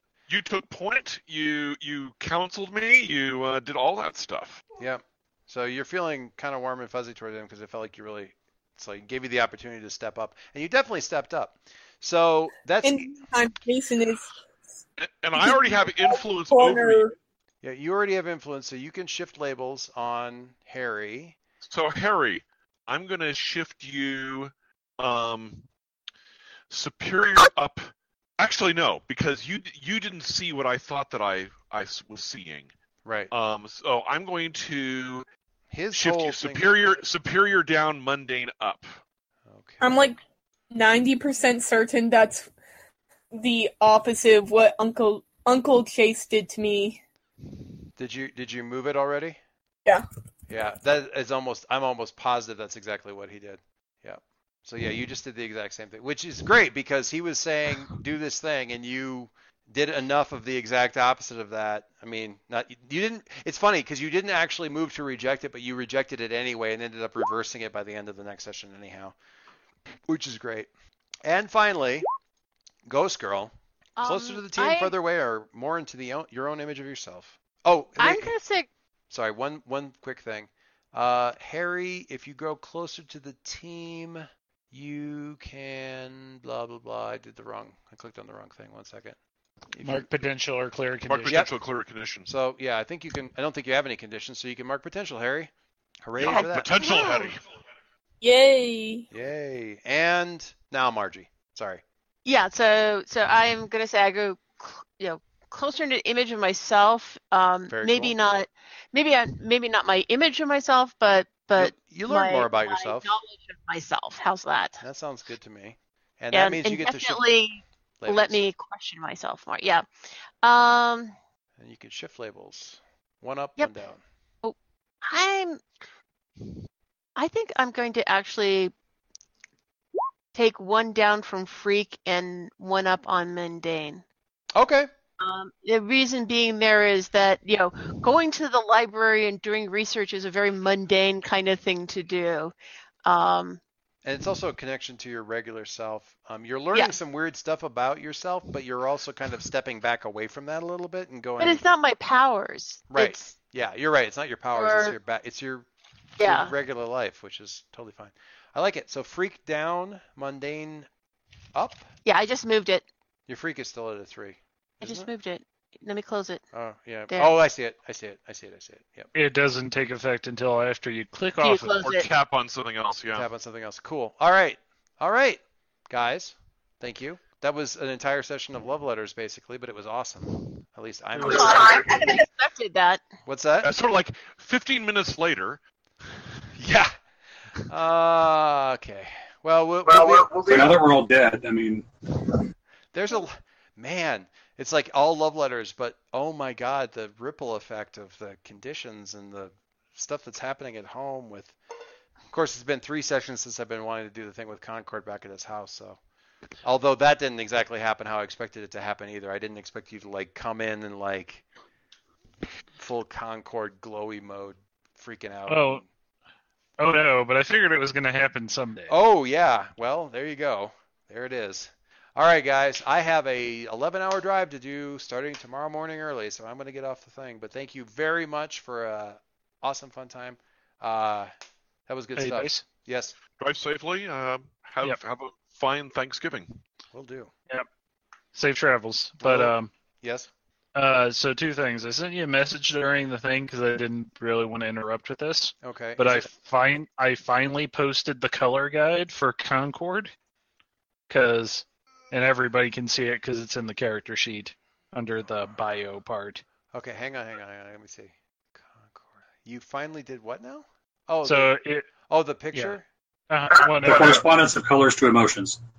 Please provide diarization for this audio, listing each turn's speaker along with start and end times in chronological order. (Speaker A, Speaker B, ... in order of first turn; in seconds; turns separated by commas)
Speaker A: 0.3-4.6, Speaker B: 4.8-13.2, Speaker C: 12.8-14.3, Speaker A: 15.0-17.1, Speaker C: 15.4-17.1, Speaker B: 17.6-21.4, Speaker A: 21.6-25.6, Speaker A: 26.7-32.7, Speaker B: 33.0-33.3, Speaker A: 33.3-35.2, Speaker B: 35.7-37.0, Speaker A: 35.9-39.0, Speaker B: 39.5-39.8, Speaker C: 39.8-40.2, Speaker C: 40.7-42.5, Speaker C: 43.3-47.0, Speaker B: 48.0-49.4, Speaker B: 50.5-69.1, Speaker B: 70.1-70.7, Speaker B: 71.2-72.1, Speaker B: 72.8-73.5, Speaker D: 74.0-74.9, Speaker B: 74.0-78.3, Speaker D: 78.0-78.7, Speaker B: 79.1-89.2, Speaker B: 89.7-90.1, Speaker E: 89.8-91.4, Speaker A: 91.1-92.3, Speaker B: 91.3-91.5, Speaker B: 92.2-95.5, Speaker B: 96.0-97.0, Speaker A: 96.2-97.4, Speaker D: 96.2-97.3, Speaker C: 98.2-99.1, Speaker B: 99.1-101.8, Speaker D: 102.2-114.8, Speaker B: 107.7-108.1, Speaker B: 111.5-113.1, Speaker B: 114.8-117.2, Speaker D: 116.3-119.9, Speaker B: 118.0-118.4, Speaker D: 120.4-121.1, Speaker B: 121.6-124.0, Speaker D: 124.4-125.6, Speaker D: 127.2-128.7, Speaker D: 130.3-134.0, Speaker B: 134.5-134.9, Speaker D: 135.2-142.5, Speaker D: 143.0-143.6, Speaker B: 144.0-151.6, Speaker D: 151.4-153.3, Speaker B: 152.9-155.7, Speaker D: 154.5-154.9, Speaker D: 156.2-156.5, Speaker B: 156.2-160.9, Speaker B: 161.5-161.8, Speaker D: 162.0-162.8, Speaker B: 163.3-165.1, Speaker D: 164.8-166.4, Speaker B: 166.5-169.1, Speaker D: 167.1-167.3, Speaker E: 169.1-171.9, Speaker D: 171.4-172.1, Speaker A: 171.8-173.3, Speaker B: 173.1-182.2, Speaker E: 181.1-181.5, Speaker D: 181.2-183.0, Speaker B: 183.2-183.7, Speaker A: 183.6-185.6, Speaker B: 186.6-186.9, Speaker B: 187.6-190.6, Speaker F: 190.3-191.9, Speaker B: 192.9-201.6, Speaker B: 202.3-206.0, Speaker B: 206.6-211.4, Speaker B: 212.8-215.8, Speaker E: 215.5-215.8, Speaker E: 216.8-218.9, Speaker B: 218.9-231.3, Speaker B: 231.9-233.1, Speaker E: 232.2-232.6, Speaker A: 233.4-236.6, Speaker B: 236.9-237.3, Speaker E: 238.3-239.7, Speaker B: 239.2-240.3, Speaker E: 240.7-250.1, Speaker B: 245.6-246.3, Speaker E: 251.1-256.4, Speaker B: 256.7-261.5, Speaker E: 261.2-261.9, Speaker B: 262.1-262.8, Speaker E: 262.5-264.2, Speaker F: 263.8-265.6